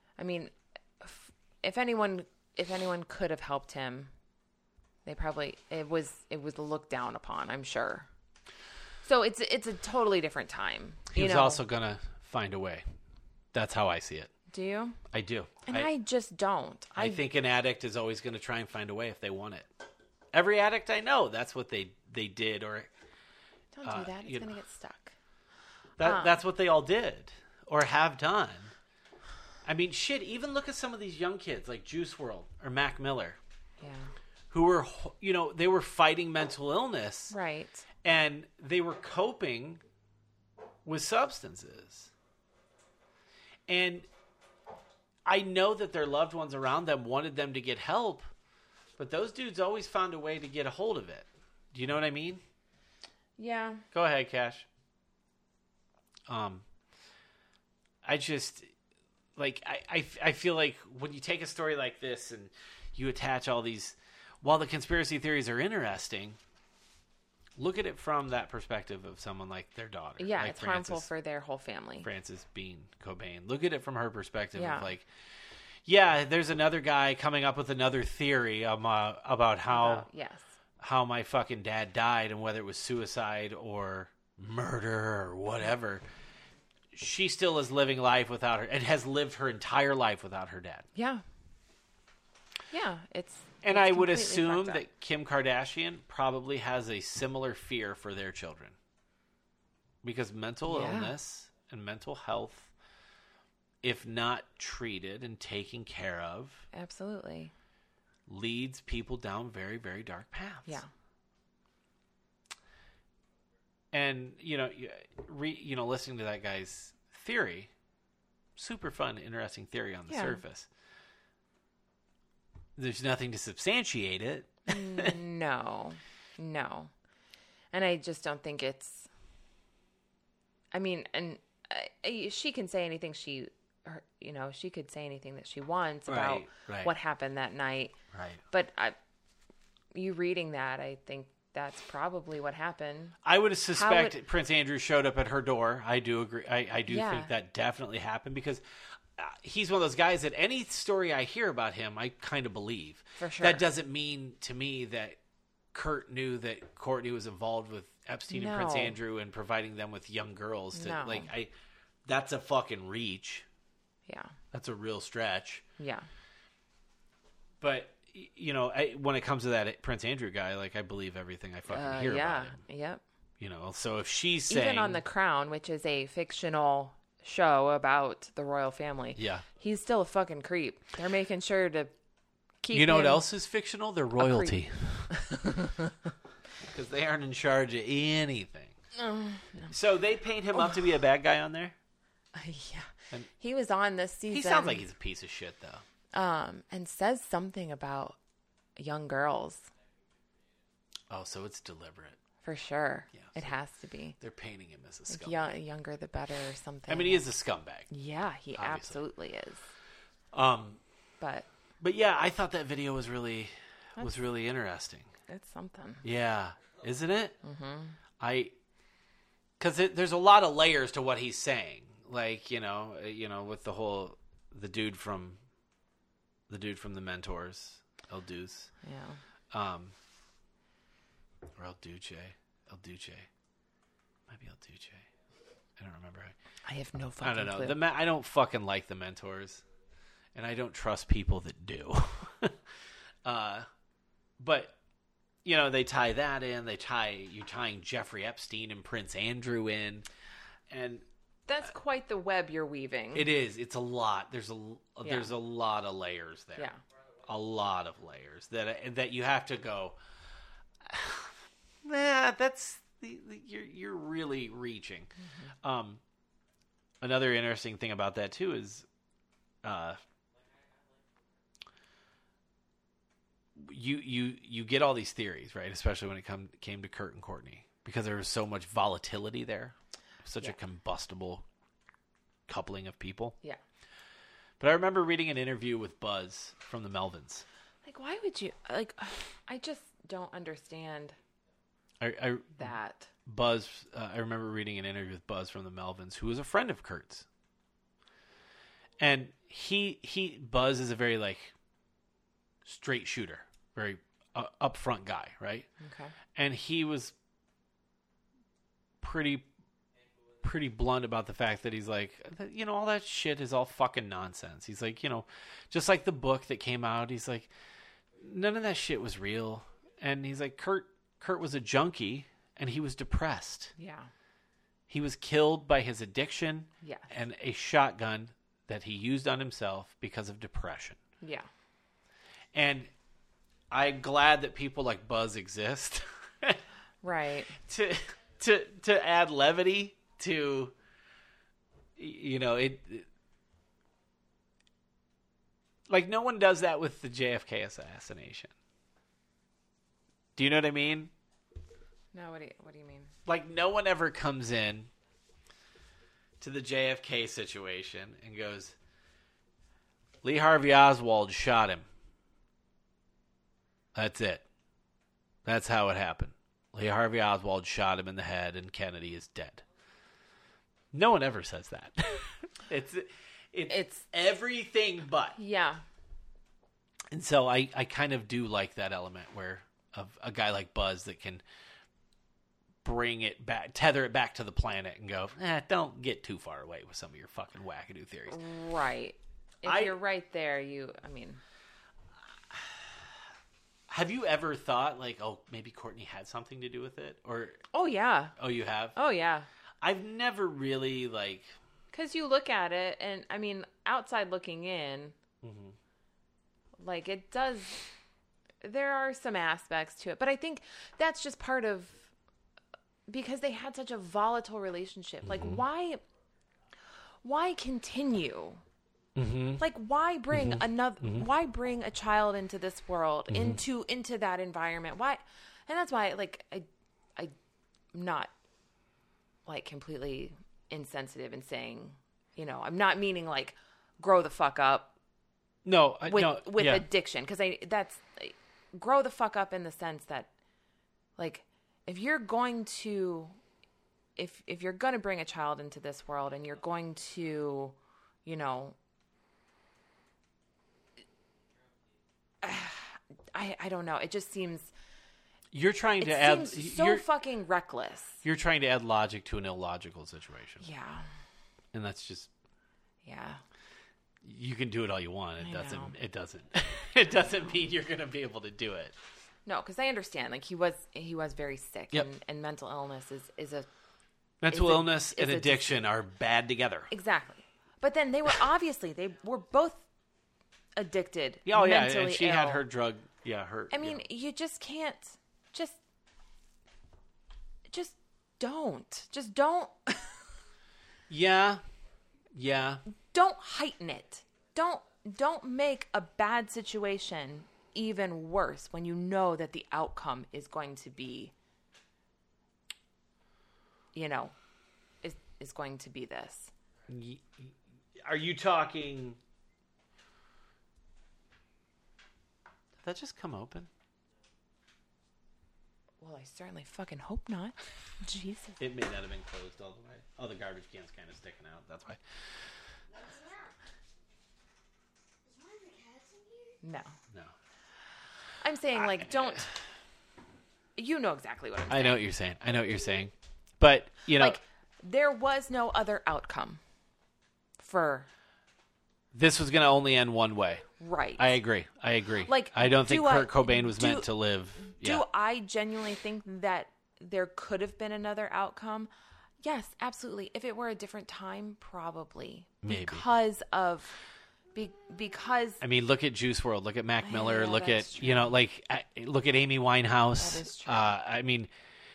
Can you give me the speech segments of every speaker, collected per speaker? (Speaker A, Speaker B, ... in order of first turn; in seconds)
Speaker A: 0.2-4.1, 5.0-8.1, 9.0-11.6, 14.5-15.0, 15.7-17.2, 23.7-25.2, 26.0-26.4, 33.8-34.1, 37.3-37.9, 53.4-53.9, 70.2-72.1, 74.5-74.9, 79.7-80.5, 91.0-91.2, 92.7-94.8, 100.7-101.2, 106.7-107.5, 120.1-120.4, 124.7-126.9, 127.7-129.1, 130.7-137.9, 138.5-139.0, 139.9-143.2, 143.7-144.2, 146.9-147.3, 153.2-153.6, 158.3-159.0, 160.7-161.3, 164.1-164.3, 165.8-166.1, 171.7-173.0, 174.5-181.9, 182.6-183.2, 184.2-185.9, 188.9-189.8, 192.3-194.9, 196.1-198.2, 198.8-199.7, 202.4-204.2, 205.1-207.3, 207.9-209.7, 211.2-211.5, 215.3-216.0, 217.4-218.0, 228.8-229.2, 236.7-237.8, 251.5-253.3, 255.0-255.3, 265.2-265.5, 287.9-291.2, 292.6-293.1, 305.8-306.1, 323.8-324.1, 326.8-327.1, 331.2-331.5, 337.0-337.6, 352.1-353.1, 373.7-374.0, 375.4-375.8, 388.3-391.4, 397.7-398.3, 398.9-399.5, 401.9-405.1, 406.8-407.8, 408.6-412.1, 413.1-416.0, 417.2-418.6, 419.6-427.3, 427.9-428.3, 429.5-434.9, 436.1-440.3, 441.2-443.4, 444.2-448.8, 452.4-454.7, 456.0-458.2, 460.6-461.1, 463.0-463.4, 465.4-465.9, 469.5-473.7, 474.5-475.7, 476.9-479.8, 480.8-482.6, 483.7-485.8, 487.7-490.2, 493.1-501.3, 503.9-504.4, 505.0-506.5, 516.0-518.6, 526.6-526.9, 528.4-529.5, 530.8-532.0, 534.1-536.6, 537.6-538.1, 540.8-541.4, 542.3-544.1, 544.6-548.9, 549.4-554.0, 554.5-555.6, 557.0-558.4, 560.2-560.9
Speaker B: 11.1-12.9, 13.5-14.3, 15.1-15.9, 16.9-19.7, 20.3-22.9, 23.8-24.5, 26.0-28.7, 29.6-33.4, 34.5-37.4, 38.0-39.8, 40.9-42.1, 43.7-44.1, 45.3-48.3, 49.0-52.4, 53.9-54.7, 56.3-56.7, 58.0-58.7, 59.4-66.4, 67.6-71.1, 72.0-75.1, 75.8-80.1, 80.8-86.0, 86.9-90.9, 93.6-98.8, 100.0-102.7, 103.8-106.7, 108.3-110.8, 113.9-117.7, 118.6-120.7, 122.8-125.2, 136.1-136.9, 138.1-138.4, 143.2-148.6, 149.2-155.2, 155.7-161.5, 162.1-163.5, 164.5-165.6, 167.6-172.6, 173.4-175.0, 179.2-179.4, 182.7-185.2, 186.6-188.8, 189.7-191.8, 194.3-195.8, 201.1-202.2, 203.1-203.5, 204.2-205.6, 206.9-207.9, 208.5-209.0, 210.3-210.8, 211.8-215.1, 216.0-217.4, 218.2-218.6, 219.6-225.4, 226.5-228.7, 229.5-230.0, 231.6-233.3, 234.3-235.1, 235.8-236.3, 237.2-239.6, 240.3-242.6, 243.2-243.7, 244.4-244.8, 245.4-250.1, 250.7-251.1, 253.1-256.7, 257.2-260.0, 260.8-265.1, 265.6-266.0, 267.0-268.9, 269.6-270.0, 273.6-281.4, 282.5-283.4, 284.6-287.4, 292.0-292.7, 293.3-297.3, 299.0-301.6, 302.6-305.7, 306.4-307.1, 309.0-309.5, 310.4-317.5, 318.2-323.8, 324.9-331.0, 332.5-332.9, 333.7-336.6, 337.7-340.7, 342.0-343.1, 345.9-348.5, 350.4-351.1, 353.3-354.9, 356.4-358.8, 360.2-361.9, 363.9-364.4, 365.4-369.6, 370.9-375.4, 377.1-381.4, 382.8-388.4, 389.6-390.0, 392.5-393.1, 393.9-397.6, 398.4-398.9, 399.8-401.6, 405.4-405.8, 415.2-415.6, 419.2-419.6, 420.3-421.3, 423.3-423.6, 435.6-436.9, 455.5-457.1, 458.2-460.6, 461.7-462.3, 464.2-469.0, 474.4-476.9, 481.5-484.0, 491.1-491.6, 492.3-492.8, 506.9-509.2, 512.8-513.7, 518.6-522.0, 528.8-529.4, 531.7-534.4, 539.1-540.7, 541.2-545.0, 552.6-553.0, 555.6-561.5
Speaker C: 522.9-523.5, 525.2-526.6